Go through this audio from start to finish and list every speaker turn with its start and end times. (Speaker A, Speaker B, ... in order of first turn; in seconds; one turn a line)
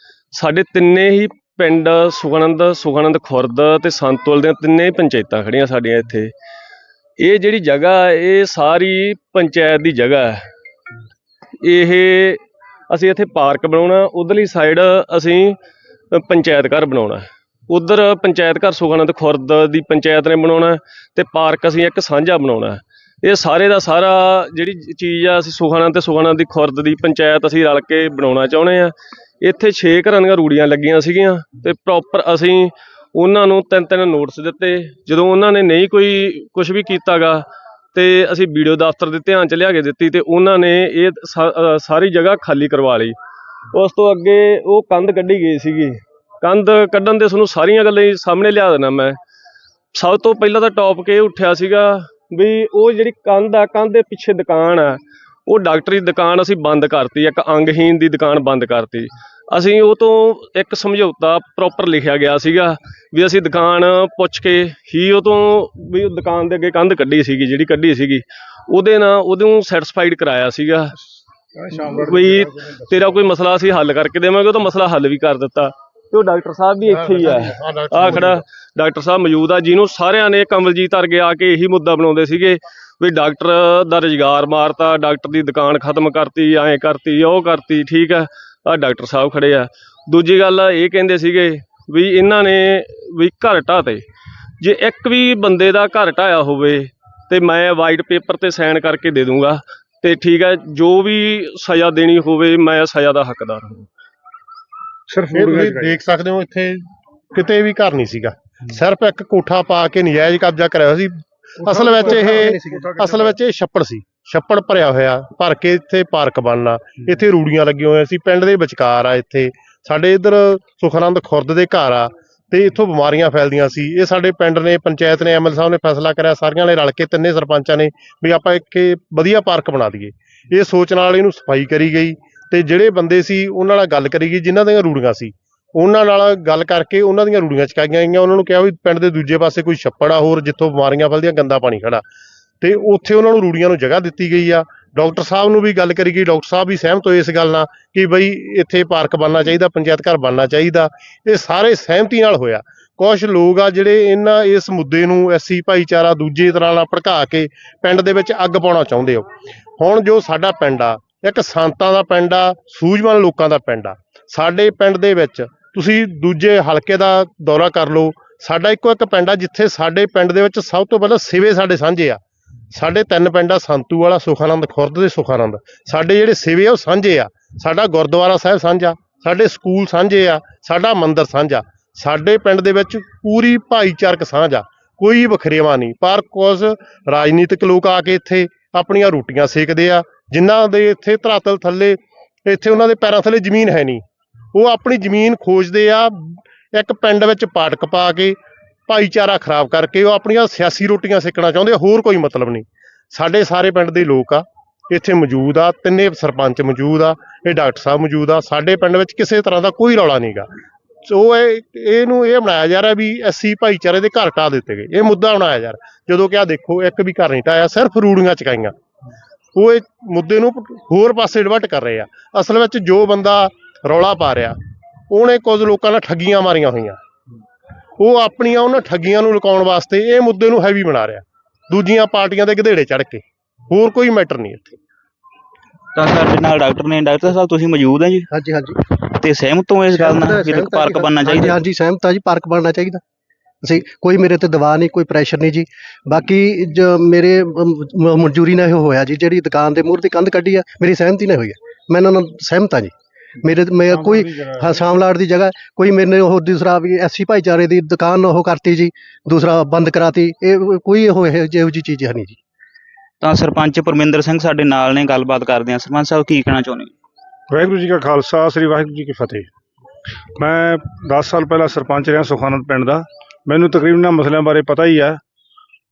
Speaker A: 0.3-6.3
Speaker A: 7.2-10.4
Speaker A: 11.6-15.6
Speaker A: 16.1-43.2
Speaker A: 43.7-49.2
Speaker A: 49.9-70.9
Speaker B: 71.8-72.2
Speaker A: 71.8-94.0
Speaker C: 76.9-78.4
Speaker A: 94.6-103.9
Speaker B: 105.1-106.0
Speaker C: 105.3-142.0
Speaker D: 111.7-112.9
Speaker C: 142.6-159.3
Speaker C: 159.8-172.2
Speaker C: 172.7-194.0
Speaker C: 194.5-210.5
Speaker C: 211.1-218.7
Speaker C: 219.6-224.6
Speaker C: 225.1-227.0
Speaker C: 228.0-234.8
Speaker E: 236.0-238.3
Speaker D: 238.3-238.8
Speaker E: 239.2-241.6
Speaker D: 239.9-243.0
Speaker D: 243.6-262.4
Speaker E: 263.2-266.9
Speaker B: 267.5-269.5
Speaker B: 270.4-275.2